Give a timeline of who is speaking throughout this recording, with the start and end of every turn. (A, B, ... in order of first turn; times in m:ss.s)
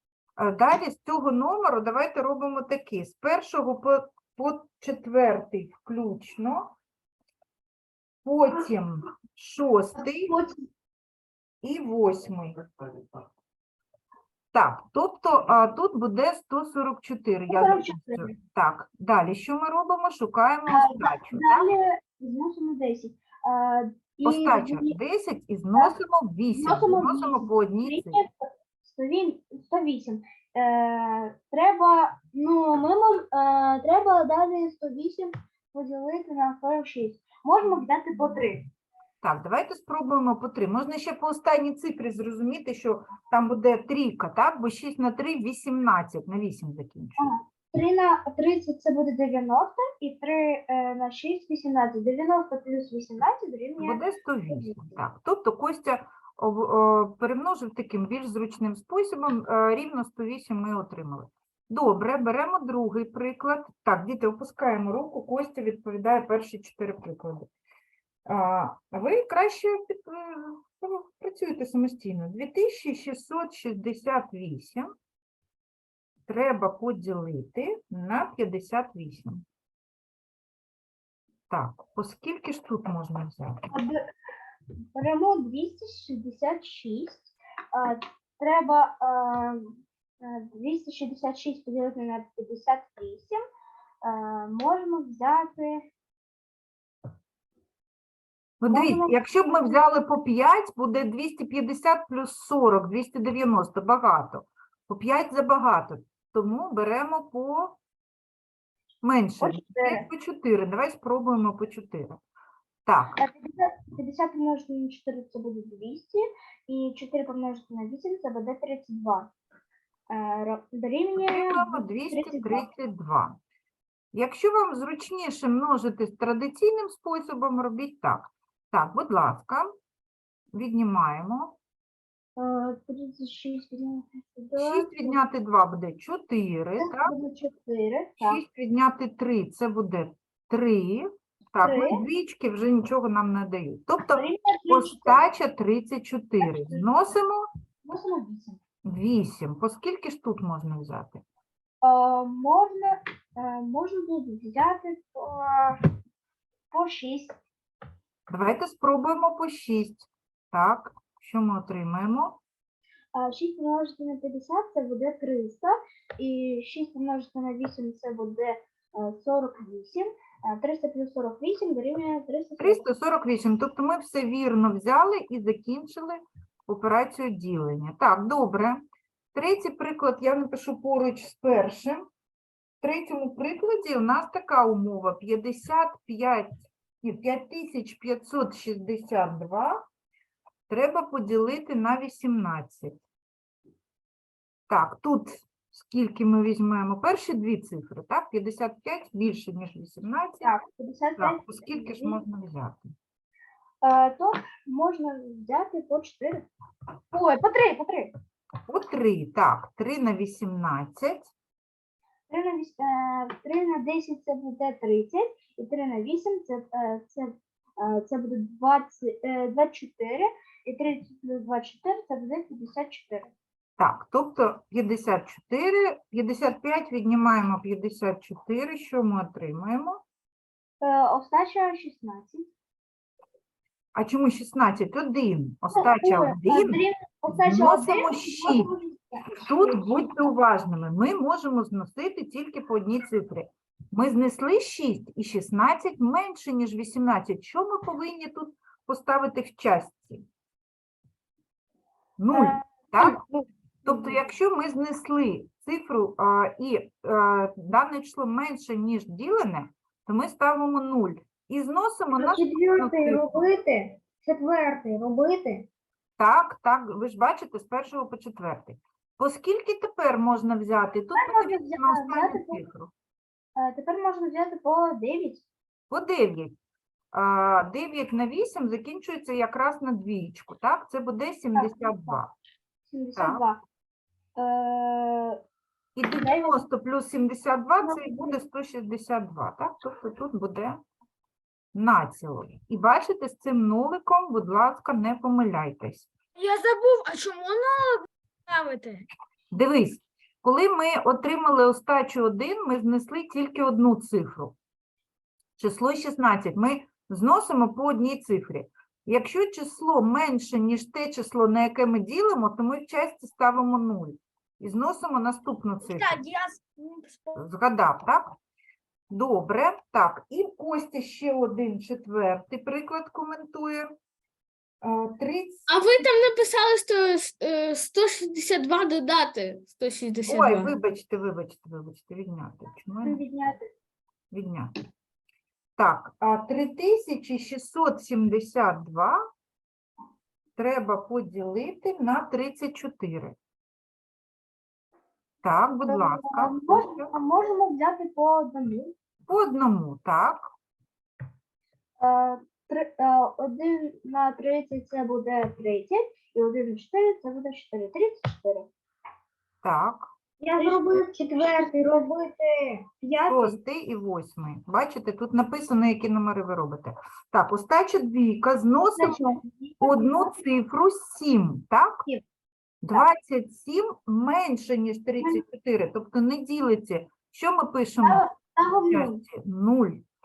0:00.4-0:06.7 A
0:08.2-0:10.3 A
0:10.3-0:10.6 B
0:11.6-0:12.6 A
0:14.5-0:21.7 A
0:17.5-0:18.4 B
0:20.7-0:24.9 B
0:24.2-0:28.2 A
0:26.6-0:28.3 B
0:28.8-0:38.6 B
0:39.2-0:47.3 A
0:47.2-0:54.8 B
0:53.8-1:07.5 A
1:08.2-1:14.9 A
1:16.3-1:19.4 A
1:21.5-1:23.7 A
1:23.7-1:24.0 B
1:24.9-1:33.4 B
1:34.0-1:35.8 B
1:38.6-1:47.8 A
1:38.7-1:39.8 B
1:49.0-1:52.2 A
1:49.4-1:50.0 B
1:52.8-1:53.2 A
1:53.2-1:59.3 B
2:00.1-2:02.6 B
2:01.2-2:03.4 A
2:04.1-2:09.7 A
2:10.5-2:11.6 A
2:12.4-2:15.2 B
2:14.6-2:17.1 A
2:16.8-2:18.4 B
2:18.2-2:27.4 A
2:21.6-2:22.0 B
2:24.1-2:25.2 B
2:26.4-2:26.8 B
2:27.8-2:28.6 B
2:28.8-2:31.2 A
2:31.8-2:35.8 B
2:36.7-2:37.4 B
2:38.3-2:42.4 A
2:43.1-2:52.8 B
2:52.6-2:58.8 A
2:59.3-3:02.0 A
3:02.8-3:09.8 A
3:10.7-3:13.0 A
3:14.7-3:20.5 A
3:20.4-3:22.2 B
3:21.2-3:22.9 A
3:23.8-3:26.5 B
3:27.1-3:28.1 B
3:28.7-3:31.3 A
3:32.3-3:43.3 B
3:43.8-3:50.0 A
3:50.8-3:52.5 B
3:53.9-3:58.7 A
3:55.7-4:00.0 B
3:59.4-4:10.2 A
4:12.2-4:13.2 A
4:12.3-4:14.2 B
4:13.8-4:23.3 A
4:22.2-4:25.7 B
4:26.2-4:32.9 A
4:31.1-4:32.6 B
4:33.6-4:35.4 B
4:35.9-4:36.5 A
4:37.1-4:42.3 A
4:41.5-4:42.2 B
4:42.9-4:43.6 B
4:43.2-4:43.4 A
4:44.4-4:45.4 B
4:46.0-4:50.8 A
4:46.1-4:46.5 B
4:47.8-4:48.3 B
4:51.7-4:56.1 A
4:56.4-4:59.0 C
4:59.5-5:04.6 A
5:05.6-5:16.2 A
5:15.9-5:17.3 C
5:17.3-5:18.4 A
5:19.1-5:23.9 A
5:24.8-5:25.7 A
5:25.7-5:30.7 C
5:30.3-5:33.2 A
5:33.0-5:33.7 B
5:34.3-5:34.7 A
5:35.8-5:39.2 A
5:40.6-5:43.4 A
5:45.4-5:47.1 A
5:45.9-5:48.9 B
5:49.3-5:50.5 A
5:52.0-5:58.7 B
5:59.6-6:00.1 A
6:00.4-6:03.6 B
6:03.3-6:09.2 A
6:08.9-6:10.3 B
6:09.8-6:12.1 A
6:12.8-6:20.0 A
6:18.0-6:19.2 B